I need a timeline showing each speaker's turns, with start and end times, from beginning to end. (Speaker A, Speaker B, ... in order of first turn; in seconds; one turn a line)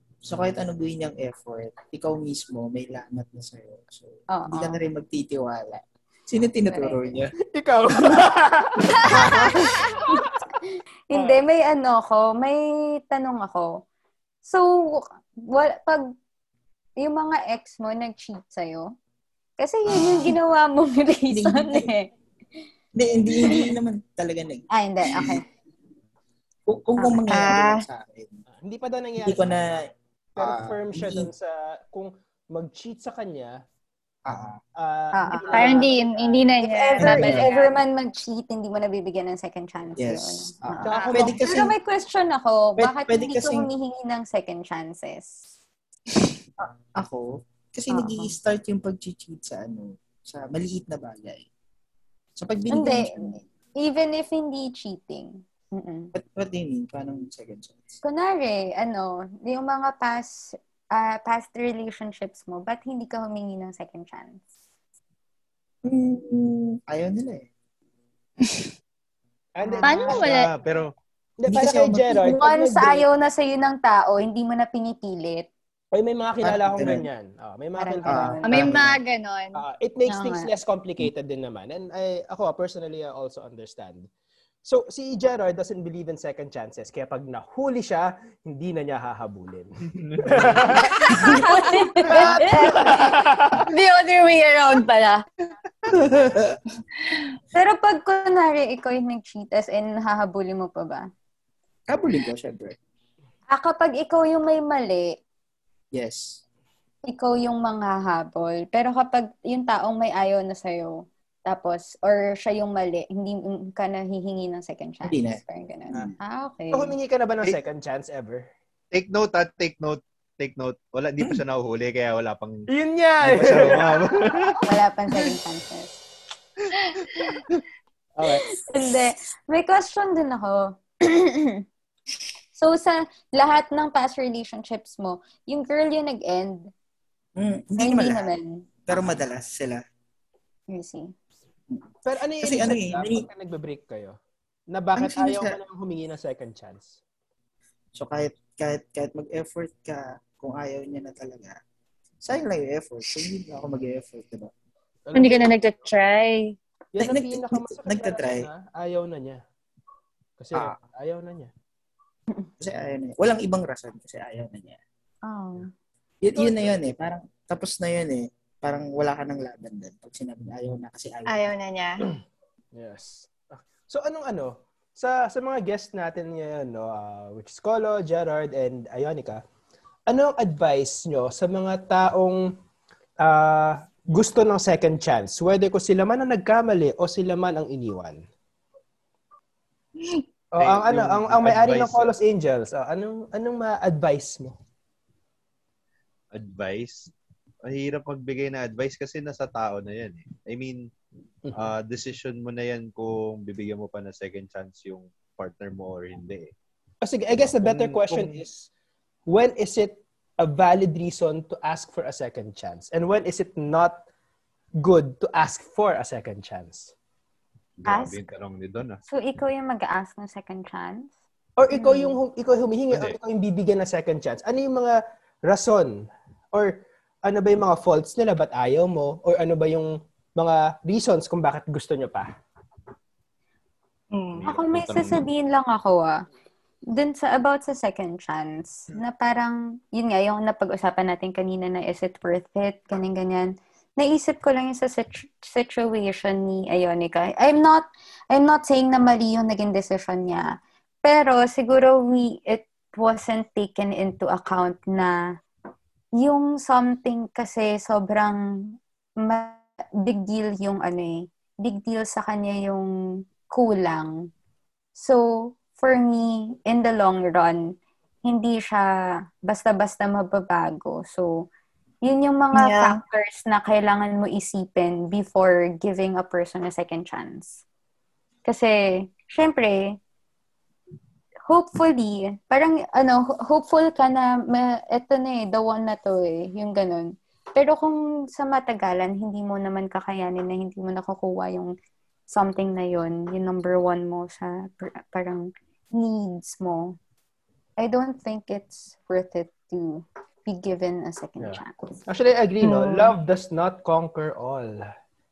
Speaker A: 0.2-7.3
Speaker B: 4.3-4.8
Speaker B: 6.7-7.0
Speaker C: 7.5-10.2
Speaker D: 9.1-9.7
Speaker B: 11.1-13.8
Speaker B: 14.4-16.1
Speaker B: 17.0-18.9
Speaker B: 19.6-22.1
Speaker A: 19.9-20.4
Speaker A: 21.3-21.9
Speaker A: 22.9-25.4
Speaker B: 23.4-23.8
Speaker B: 24.7-25.4
Speaker A: 26.7-28.4
Speaker B: 27.0-27.4
Speaker D: 27.3-27.8
Speaker C: 28.6-29.6
Speaker A: 29.2-31.3
Speaker C: 30.4-33.6
Speaker A: 34.3-34.6
Speaker C: 34.8-36.5
Speaker B: 35.1-35.8
Speaker D: 35.5-37.7
Speaker B: 36.6-45.5
Speaker A: 37.0-37.5
Speaker A: 40.0-41.8
Speaker C: 40.8-41.4
Speaker A: 42.8-43.7
Speaker A: 46.6-51.5
Speaker B: 47.9-48.4
Speaker A: 52.4-53.4
Speaker B: 52.7-56.1
Speaker A: 56.1-57.9
Speaker B: 58.0-64.4
Speaker A: 65.8-67.5
Speaker C: 69.5-70.4
Speaker B: 69.6-70.2
Speaker D: 69.8-70.5
Speaker E: 70.1-70.9
Speaker C: 71.4-73.1
Speaker A: 71.5-72.3
Speaker B: 72.2-75.5
Speaker C: 75.9-79.0
Speaker A: 76.4-77.1
Speaker B: 77.8-78.8
Speaker A: 78.1-78.9
Speaker D: 78.5-79.6
Speaker C: 79.5-84.1
Speaker B: 80.1-80.5
Speaker C: 84.6-91.3
Speaker E: 90.0-90.9
Speaker D: 91.1-95.2
Speaker A: 91.1-91.4
Speaker B: 91.2-93.0
Speaker C: 92.4-93.6
Speaker A: 95.9-96.6
Speaker B: 97.5-101.1
Speaker A: 101.9-102.8
Speaker B: 103.5-105.2
Speaker A: 105.9-106.4
Speaker B: 107.1-117.0
Speaker A: 115.0-116.2
Speaker C: 116.7-118.5
Speaker E: 118.9-122.7
Speaker C: 122.7-124.5
Speaker E: 123.2-124.6
Speaker B: 124.6-126.0
Speaker B: 128.2-131.6
Speaker B: 132.5-136.7
Speaker A: 137.4-138.3
Speaker B: 137.8-139.0
Speaker A: 138.9-139.8
Speaker B: 140.7-141.1
Speaker C: 142.1-144.2
Speaker A: 142.4-143.3
Speaker C: 144.7-147.0
Speaker A: 145.0-145.6
Speaker A: 147.9-151.6
Speaker A: 152.2-154.5
Speaker C: 155.1-155.5
Speaker D: 155.2-156.6
Speaker C: 156.9-159.4
Speaker A: 157.0-158.5
Speaker C: 160.4-161.5
Speaker A: 162.6-164.8
Speaker B: 165.2-165.7
Speaker A: 166.2-171.4
Speaker C: 166.3-166.8
Speaker D: 171.3-172.0
Speaker C: 172.7-179.4
Speaker C: 180.1-182.5
Speaker C: 183.2-188.2
Speaker C: 190.5-194.6
Speaker E: 190.6-192.1
Speaker E: 196.3-197.1
Speaker E: 197.7-200.9
Speaker E: 201.6-206.5
Speaker C: 207.0-208.7
Speaker E: 207.4-208.4
Speaker C: 209.3-214.1
Speaker C: 214.8-216.9
Speaker E: 217.8-219.0
Speaker D: 217.9-218.2
Speaker B: 219.1-221.1
Speaker C: 221.6-232.3
Speaker B: 221.8-222.2
Speaker E: 222.9-223.2
Speaker D: 234.1-234.4
Speaker E: 234.4-235.2
Speaker B: 234.5-236.2
Speaker B: 236.9-255.1
Speaker B: 256.2-262.9
Speaker B: 263.5-264.1
Speaker B: 265.0-268.9
Speaker B: 269.5-271.5
Speaker B: 272.0-277.6
Speaker D: 272.5-273.0
Speaker B: 278.4-280.0
Speaker B: 281.5-291.7
Speaker B: 292.3-297.0
Speaker B: 297.8-302.0
Speaker C: 301.4-304.9
Speaker D: 302.6-303.1